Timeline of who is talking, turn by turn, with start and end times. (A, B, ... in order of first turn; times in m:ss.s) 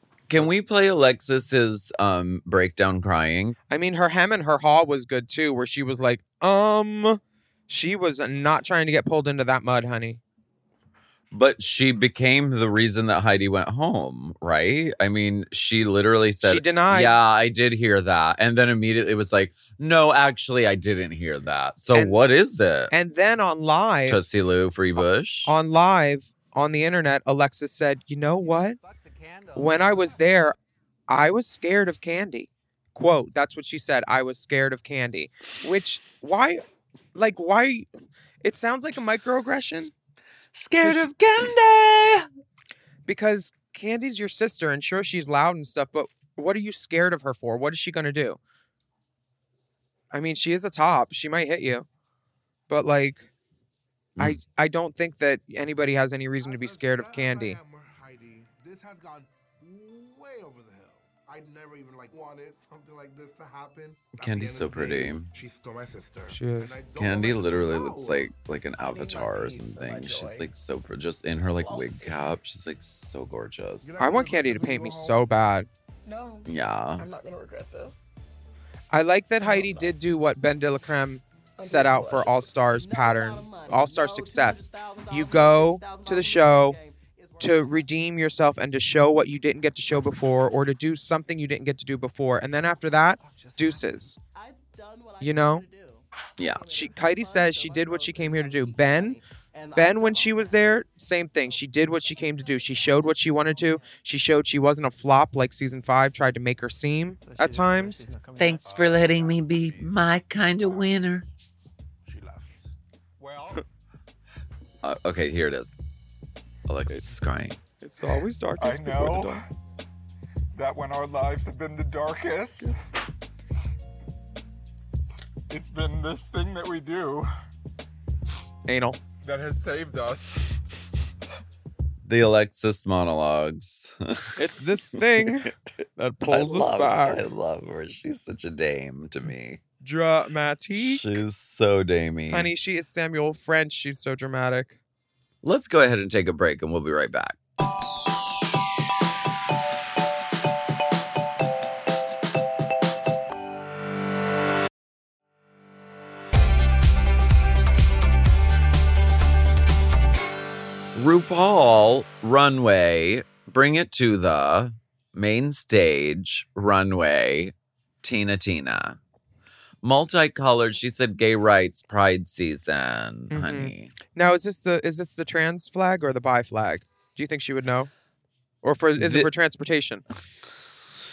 0:00.3-0:03.6 A
0:03.7-0:10.2 B
0:11.3-0:22.9 A
0:16.4-0:17.1 B
0:22.9-0:24.2 B
0:24.1-0:25.5 A
0:25.5-0:28.8 B
0:28.8-0:30.1 C
0:29.6-0:30.6 B
0:31.1-0:36.6 B
0:37.2-0:37.9 B
0:38.4-0:39.9 B
0:40.5-0:42.3 A
0:43.1-0:48.4 B
0:50.1-0:51.9 B
0:52.7-0:53.3 B
0:54.2-0:57.6 B
0:56.4-1:08.3 C
1:04.2-1:05.3 A
1:06.3-1:06.8 B
1:07.0-1:14.0 A
1:08.8-1:10.4 D
1:11.6-1:12.2 D
1:13.8-1:15.3 C
1:14.0-1:15.7 B
1:16.1-1:16.5 D
1:16.5-1:17.1 A
1:17.0-1:18.1 D
1:18.9-1:26.8 B
1:19.5-1:19.9 D
1:21.6-1:27.8 D
1:27.4-1:34.2 B
1:33.2-1:40.8 D
1:35.2-1:35.7 B
1:36.4-1:36.6 A
1:36.7-1:39.2 B
1:39.8-1:48.1 B
1:41.4-1:44.0 D
1:47.3-1:48.6 D
1:48.4-1:51.3 A
1:48.5-1:49.8 C
1:49.6-1:49.9 E
1:52.1-1:52.5 E
1:52.1-1:52.6 C
1:53.2-1:53.6 E
1:54.8-1:55.8 A
1:56.7-1:57.6 A
1:57.8-1:59.4 B
1:58.6-1:59.5 E
2:00.6-2:02.9 E
2:05.5-2:07.3 E
2:08.7-2:09.0 B
2:09.2-2:10.6 E
2:12.0-2:14.4 A
2:14.4-2:17.2 B
2:15.2-2:15.5 A
2:16.3-2:19.6 A
2:19.8-2:21.2 B
2:20.8-2:22.5 A
2:22.3-2:24.8 B
2:25.4-2:27.4 A
2:41.0-2:49.0 A
2:49.8-2:53.9 A
2:53.3-2:57.9 B
2:58.6-3:00.0 B
2:59.0-2:59.3 A